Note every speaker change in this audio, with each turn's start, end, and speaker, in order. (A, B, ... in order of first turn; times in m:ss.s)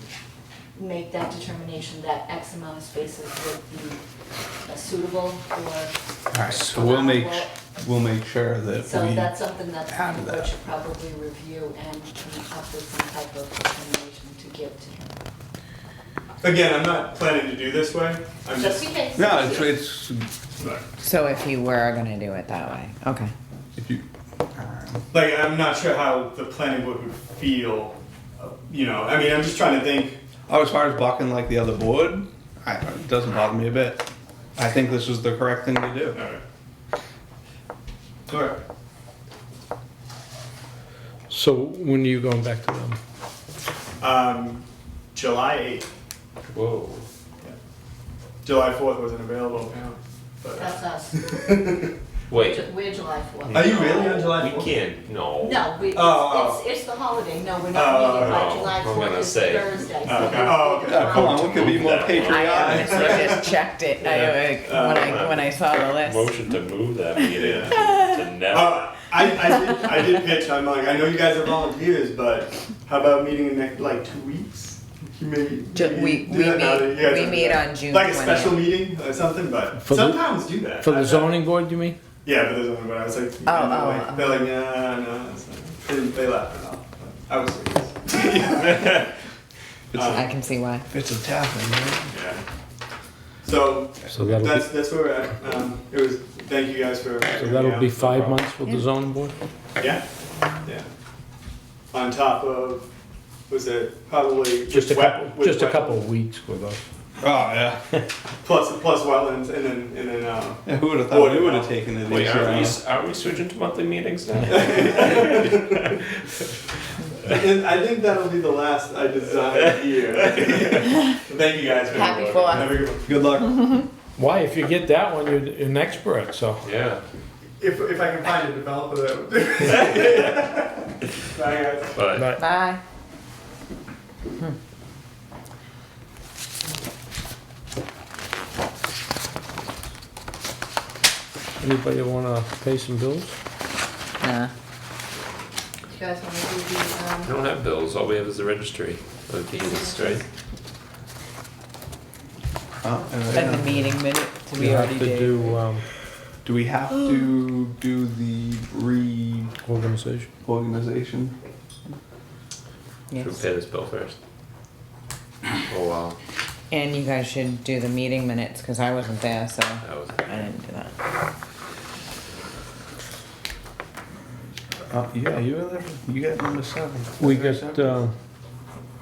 0:00.8-0:04.0 A
0:04.6-0:07.5 A
0:06.3-0:09.4 B
0:08.8-0:15.2 A
0:09.9-0:10.5 B
0:16.4-0:18.9 C
0:18.6-0:19.8 A
0:19.2-0:20.3 B
0:20.6-0:20.8 C
0:21.0-0:23.3 D
0:23.8-0:25.0 B
0:25.1-0:30.2 C
0:30.5-0:34.0 B
0:34.6-0:36.2 B
0:36.1-0:36.4 C
0:38.3-0:38.6 C
0:41.3-0:43.0 E
0:44.0-0:45.9 C
0:48.4-0:51.9 C
0:50.6-0:51.7 A
0:52.3-0:52.6 F
0:52.3-0:54.4 A
0:53.4-0:55.6 F
0:53.5-0:54.7 C
0:55.4-1:02.8 A
0:55.9-0:56.6 C
0:57.7-0:58.5 C
0:58.2-0:59.7 F
1:00.0-1:05.2 C
1:00.9-1:03.1 B
1:01.5-1:02.6 F
1:02.2-1:06.3 D
1:05.0-1:08.8 F
1:07.3-1:07.8 C
1:08.5-1:21.4 C
1:15.7-1:18.7 D
1:19.8-1:22.0 E
1:22.2-1:29.1 C
1:23.4-1:24.4 D
1:29.9-1:30.2 B
1:29.9-1:30.3 C
1:30.1-1:30.8 D
1:30.9-1:32.1 B
1:32.1-1:32.4 C
1:33.4-1:38.4 C
1:34.1-1:34.7 E
1:37.4-1:39.3 E
1:39.8-1:40.0 C
1:41.9-1:42.9 C
1:43.5-1:46.0 C
1:44.7-1:46.8 E
1:47.2-1:47.8 B
1:48.4-1:51.7 C
1:50.7-1:52.8 B
1:52.1-1:55.7 F
1:54.5-1:55.9 C
1:57.2-2:03.2 C
2:01.9-2:02.8 D
2:03.0-2:03.8 B
2:04.2-2:06.6 E
2:06.6-2:07.0 F
2:07.6-2:12.0 C
2:12.0-2:12.3 F
2:12.2-2:12.4 E
2:12.4-2:12.8 D
2:21.6-2:23.3 E
2:24.2-2:24.5 D
2:25.9-2:27.4 A
2:27.3-2:30.2 F
2:29.5-2:30.2 A
2:32.8-2:34.0 B
2:33.3-2:35.6 D
2:34.6-2:35.8 E
2:36.4-2:39.5 B
2:39.6-2:40.3 E
2:40.4-2:41.4 B
2:43.1-2:43.4 D
2:43.2-2:44.2 F
2:45.7-2:46.1 F
2:46.7-2:50.9 D
2:49.8-2:50.4 F
2:54.9-2:58.0 B
2:57.2-2:58.1 E